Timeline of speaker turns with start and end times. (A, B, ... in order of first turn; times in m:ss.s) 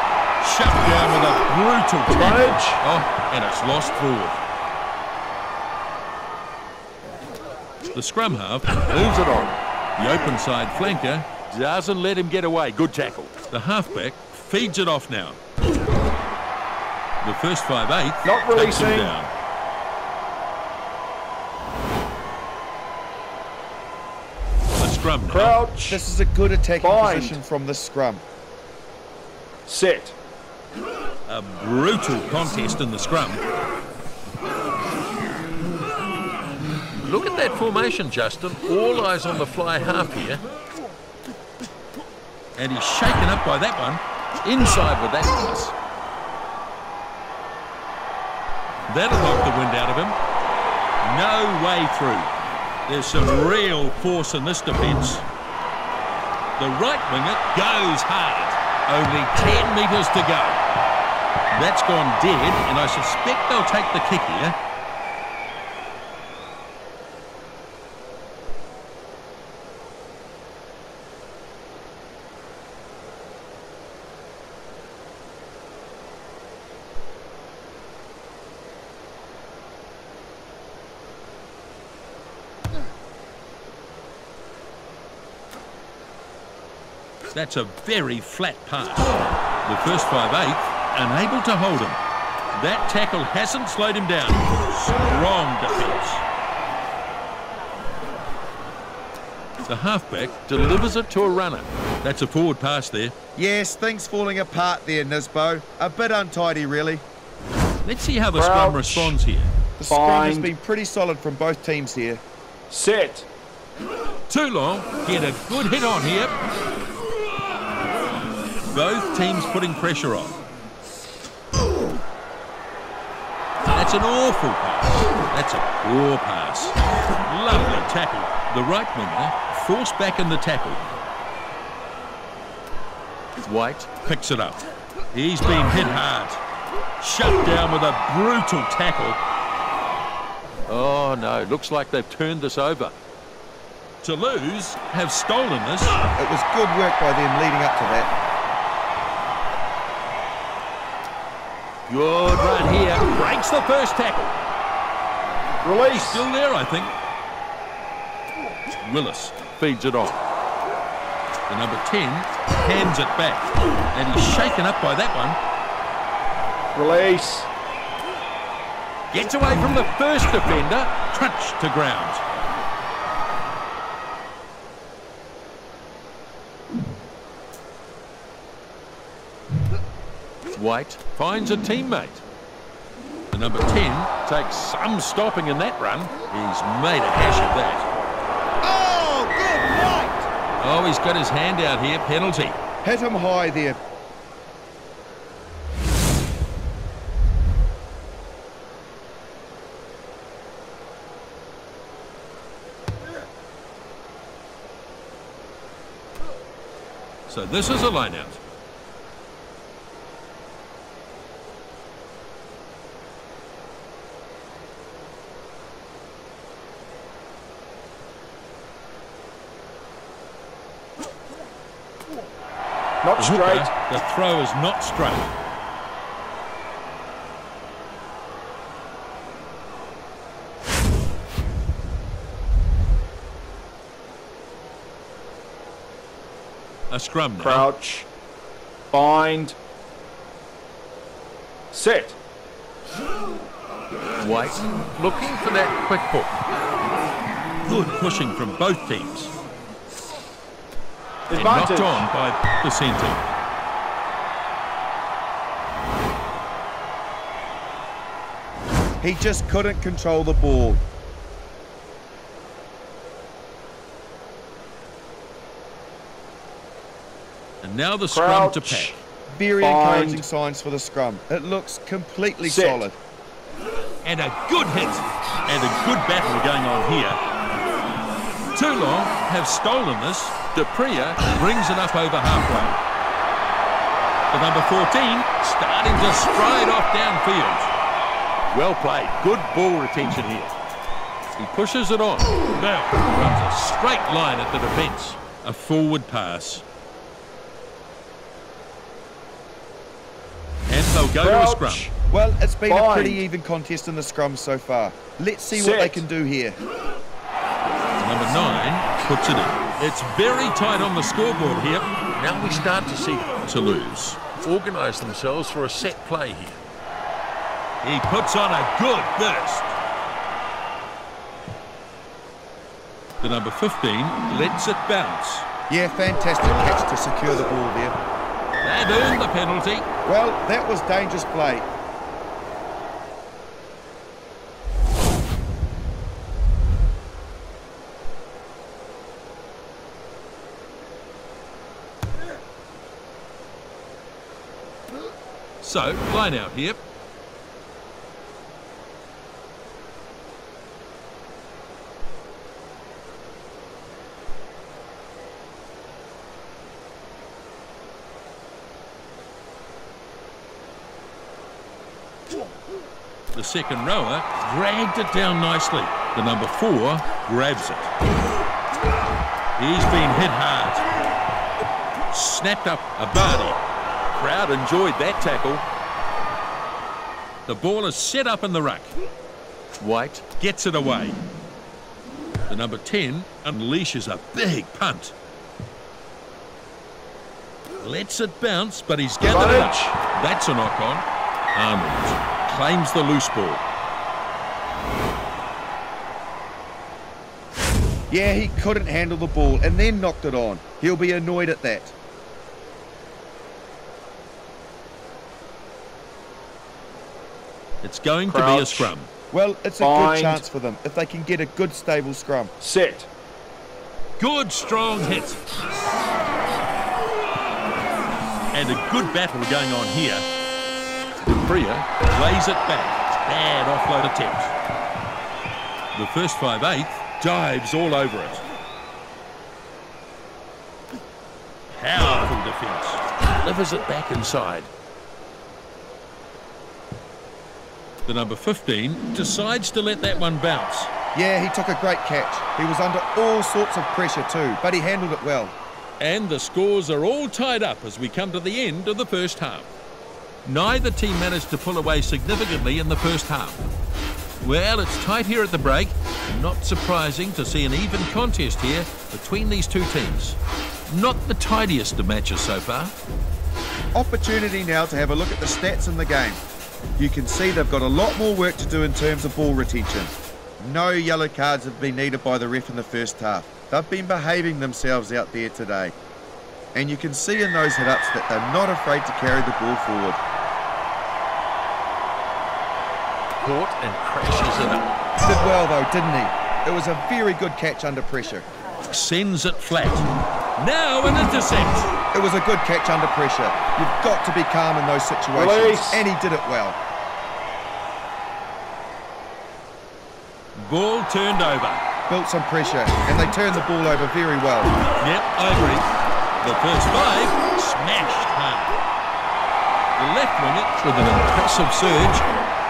0:00.4-0:04.4 A
0:02.1-0:02.8 B
0:07.9-0:15.4 A
0:17.2-0:19.3 A
0:18.2-0:19.2 B
0:24.8-0:25.6 A
0:25.3-0:26.0 B
0:25.9-0:28.2 C
0:26.8-0:27.4 B
0:29.7-0:30.2 B
0:31.3-0:33.4 A
0:37.0-0:40.4 A
0:42.6-0:45.7 A
0:48.9-0:50.2 A
0:51.0-0:52.3 A
0:52.9-0:55.3 A
0:56.6-1:00.6 A
1:01.5-1:04.6 A
1:27.3-1:32.0 A
1:32.6-1:36.2 A
1:39.7-1:43.2 A
1:43.4-1:47.0 C
1:47.8-1:49.5 A
1:48.3-1:49.2 B
1:49.8-1:52.2 C
1:49.9-1:50.5 B
1:52.7-1:53.3 B
1:54.3-1:56.4 A
1:58.7-2:00.4 A
2:03.7-2:10.9 A
2:13.4-2:14.6 A
2:15.1-2:16.4 A
2:17.0-2:19.2 A
2:20.7-2:23.0 A
2:24.0-2:26.0 A
2:26.2-2:28.1 C
2:31.9-2:34.3 A
2:35.6-2:36.3 B
2:35.9-2:36.9 A
2:38.8-2:40.2 A
2:41.5-2:45.4 A
2:46.8-2:47.5 B
2:49.1-2:52.2 A
3:00.5-3:02.2 A
3:03.3-3:07.9 A
3:08.6-3:10.3 C
3:10.6-3:12.6 A
3:12.8-3:13.8 C
3:27.3-3:28.4 A
3:43.0-3:43.7 B
3:43.2-3:45.3 A
3:56.9-3:57.7 A
3:57.4-3:58.1 B
3:58.9-3:59.6 B
4:01.7-4:02.2 B
4:04.2-4:06.3 A
4:07.7-4:09.3 A
4:11.3-4:12.1 B
4:11.3-4:13.3 A
4:19.0-4:20.8 C
4:27.6-4:29.0 A
4:28.1-4:29.0 B
4:29.3-4:33.0 C
4:29.6-4:30.2 B
4:32.4-4:32.8 B
4:34.0-4:37.2 A
4:38.5-4:42.8 A
4:44.3-4:47.7 A
4:48.5-4:50.6 A
4:51.4-4:56.6 A
5:00.7-5:01.9 A
5:01.2-5:01.9 B
5:02.1-5:06.6 C
5:02.7-5:03.2 B
5:05.5-5:06.0 B
5:08.0-5:16.6 A
5:17.8-5:19.7 A
5:23.2-5:25.5 A
5:25.7-5:28.0 C
5:28.6-5:29.9 A
5:30.0-5:31.7 C
5:45.6-5:46.8 A
6:03.3-6:07.9 A
6:09.6-6:10.9 A
6:12.1-6:13.6 A
6:14.1-6:15.6 A
6:17.5-6:18.9 A
6:19.8-6:21.2 A
6:22.5-6:25.1 A
6:27.8-6:33.6 A
6:29.2-6:29.9 B
6:38.1-6:41.9 C
6:47.8-6:49.1 A
6:48.3-6:48.9 B
6:49.3-6:52.5 C
6:49.8-6:50.5 B
6:52.6-6:53.1 B
6:54.2-6:55.4 A
6:58.5-7:00.2 A
7:01.2-7:04.5 A
7:05.9-7:08.4 A
7:11.7-7:14.7 A
7:18.1-7:20.9 A
7:21.1-7:25.6 C
7:26.0-7:29.7 A
7:30.4-7:33.6 A
7:34.4-7:42.9 A
7:43.9-7:46.4 C
7:47.0-7:56.0 C
7:56.7-8:00.2 C
8:03.4-8:04.9 A
8:05.2-8:08.5 C
8:08.8-8:11.9 A
8:12.1-8:16.8 C
8:15.4-8:16.1 B
8:20.6-8:21.8 A
8:22.1-8:24.8 C
8:25.0-8:25.9 A
8:26.4-8:28.8 A
8:30.0-8:32.3 A